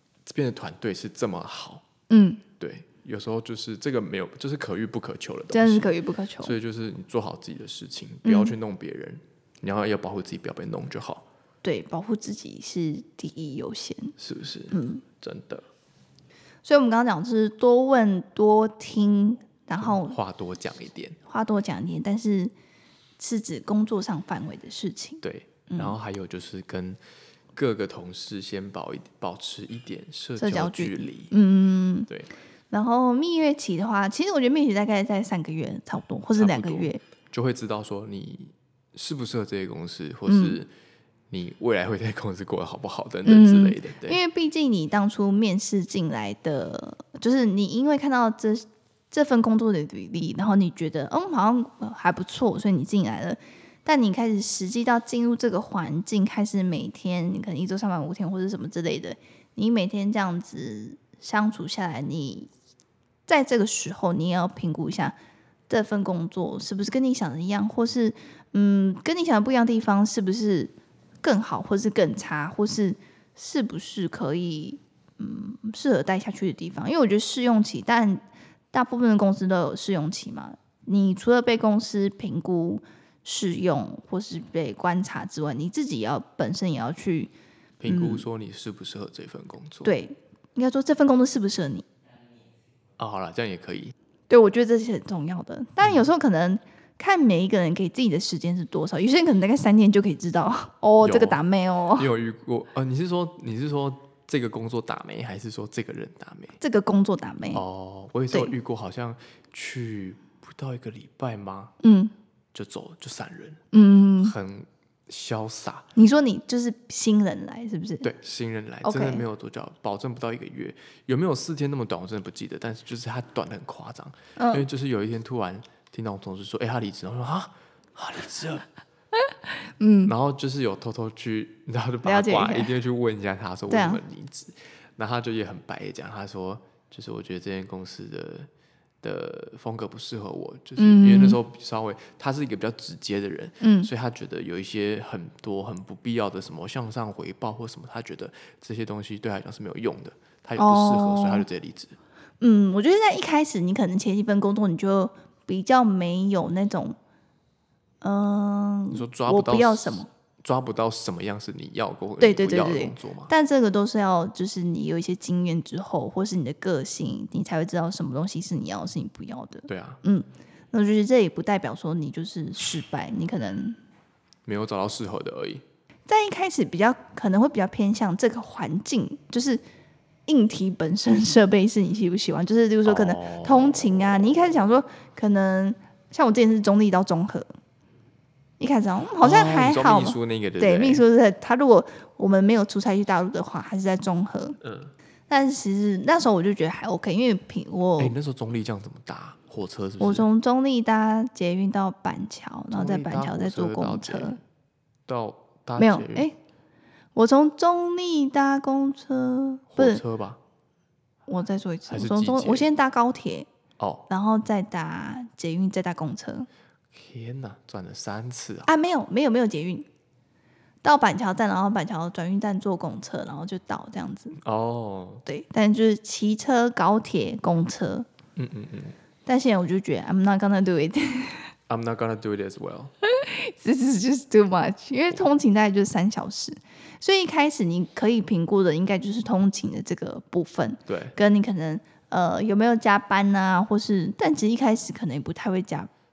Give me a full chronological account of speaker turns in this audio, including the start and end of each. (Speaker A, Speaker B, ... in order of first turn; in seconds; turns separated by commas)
Speaker A: 0.2-1.8, Speaker B: 2.1-2.4, Speaker A: 2.6-11.2, Speaker B: 5.5-6.5, Speaker B: 8.2-8.5, Speaker B: 11.6-14.1, Speaker A: 14.2-15.6, Speaker B: 14.7-15.0, Speaker B: 16.6-20.2, Speaker A: 19.8-21.2, Speaker B: 21.2-22.5, Speaker B: 23.2-25.9, Speaker A: 25.2-27.0, Speaker A: 27.5-31.3, Speaker B: 30.4-32.1, Speaker B: 32.7-37.0, Speaker A: 36.3-40.7, Speaker B: 40.3-40.6, Speaker A: 41.3-44.2, Speaker B: 43.2-62.5, Speaker B: 63.3-65.1, Speaker B: 65.7-87.3, Speaker A: 87.8-89.9, Speaker B: 87.8-88.2, Speaker B: 89.8-91.8, Speaker A: 93.0-93.9, Speaker B: 94.3-102.1, Speaker A: 101.0-101.4, Speaker A: 101.9-106.5, Speaker B: 106.6-107.6, Speaker A: 107.5-111.7, Speaker B: 111.8-112.1, Speaker A: 112.5-113.6, Speaker B: 113.7-114.3, Speaker A: 114.2-115.8, Speaker B: 116.0-118.1, Speaker A: 118.0-128.7, Speaker B: 118.8-119.2, Speaker B: 124.4-124.7, Speaker B: 129.8-130.1, Speaker A: 130.0-138.5, Speaker B: 132.0-132.7, Speaker B: 133.7-134.0, Speaker A: 139.0-152.0, Speaker B: 140.8-141.4, Speaker B: 143.6-143.9, Speaker B: 150.6-151.4, Speaker B: 152.4-157.0, Speaker B: 158.0-160.1, Speaker A: 158.9-163.3, Speaker B: 162.2-173.8, Speaker A: 169.7-170.0, Speaker A: 174.4-175.6, Speaker B: 176.1-179.6, Speaker B: 180.3-187.5, Speaker A: 182.8-184.3, Speaker B: 188.6-194.6, Speaker A: 189.2-191.0, Speaker A: 194.6-194.9, Speaker B: 195.3-198.1, Speaker A: 198.0-200.3, Speaker B: 200.0-204.4, Speaker A: 202.7-204.4, Speaker A: 205.1-206.3, Speaker B: 205.8-206.3, Speaker B: 207.1-210.0, Speaker A: 209.7-210.4, Speaker B: 211.3-213.5, Speaker A: 211.9-212.7, Speaker A: 213.8-214.1, Speaker B: 214.1-216.5, Speaker A: 216.9-218.7, Speaker B: 218.7-219.9, Speaker B: 220.8-224.4, Speaker A: 224.3-225.2, Speaker B: 225.2-228.1, Speaker A: 228.3-228.9, Speaker B: 229.2-231.5, Speaker A: 231.7-232.9, Speaker B: 233.0-245.9, Speaker A: 240.9-241.2